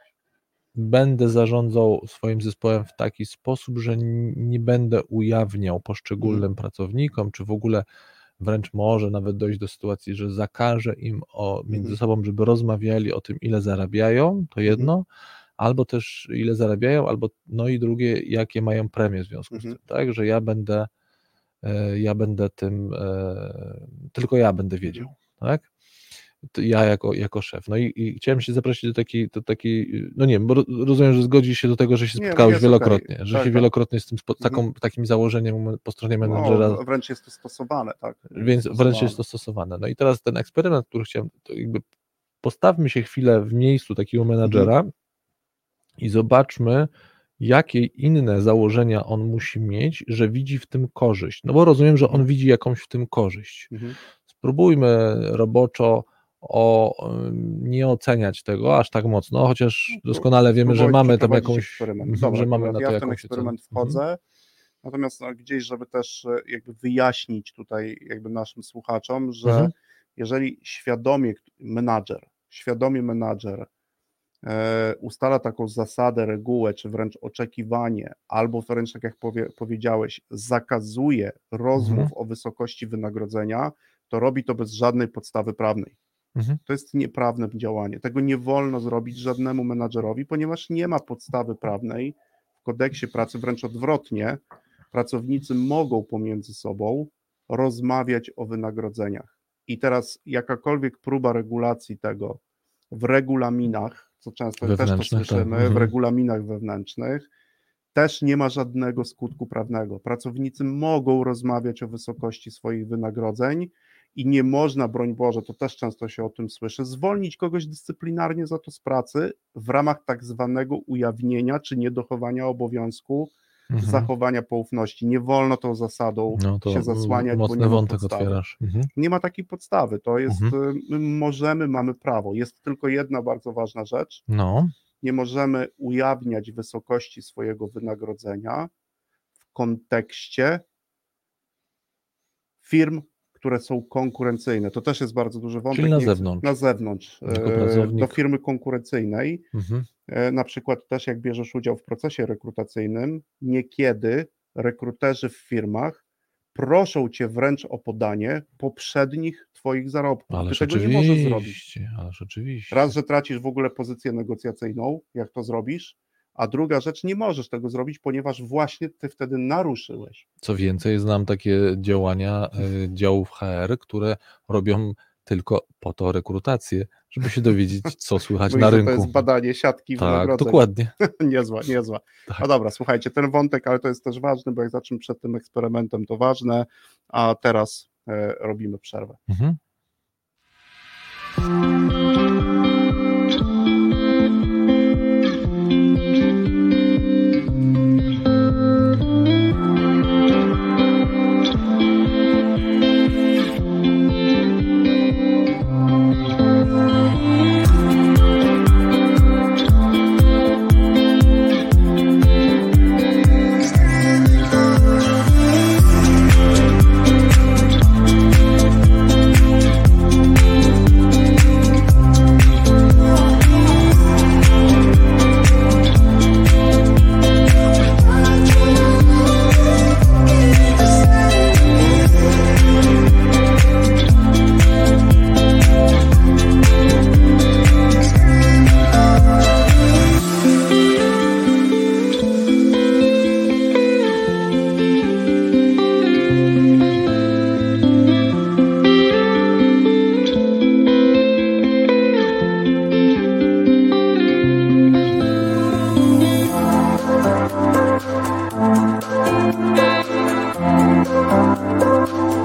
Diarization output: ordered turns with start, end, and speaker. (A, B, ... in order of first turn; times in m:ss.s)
0:00.7-0:07.9 A
0:08.4-0:15.1 A
0:11.7-0:12.0 B
0:15.6-0:20.9 A
0:21.6-0:25.7 A
0:26.4-0:36.8 A
0:32.2-0:33.7 B
0:36.2-0:39.2 B
0:38.4-0:41.8 A
0:42.4-0:44.9 A
0:44.4-0:44.7 B
0:46.0-0:53.7 A
0:53.7-0:54.0 B
0:54.3-1:04.0 A
1:00.0-1:04.2 B
1:04.8-1:13.7 B
1:09.4-1:09.7 A
1:14.4-1:26.0 B
1:21.8-1:22.1 A
1:26.4-1:26.6 A
1:26.6-1:34.4 B
1:34.9-1:42.4 B
1:42.9-1:47.3 B
1:44.6-1:45.9 A
1:47.9-2:08.4 B
2:03.7-2:04.1 A
2:06.4-2:08.9 A
2:09.0-2:14.2 B
2:10.3-2:10.6 A
2:14.3-2:14.7 A
2:15.0-2:18.7 B
2:19.5-2:20.6 B
2:22.6-2:29.5 B
2:25.7-2:26.5 A
2:27.3-2:28.2 A
2:29.5-2:29.9 A
2:30.1-2:36.0 B
2:36.5-2:41.6 B
2:40.3-2:42.9 A
2:42.7-2:50.3 B
2:50.4-2:59.2 A
2:58.5-3:09.2 B
3:00.0-3:00.9 A
3:09.3-3:09.6 A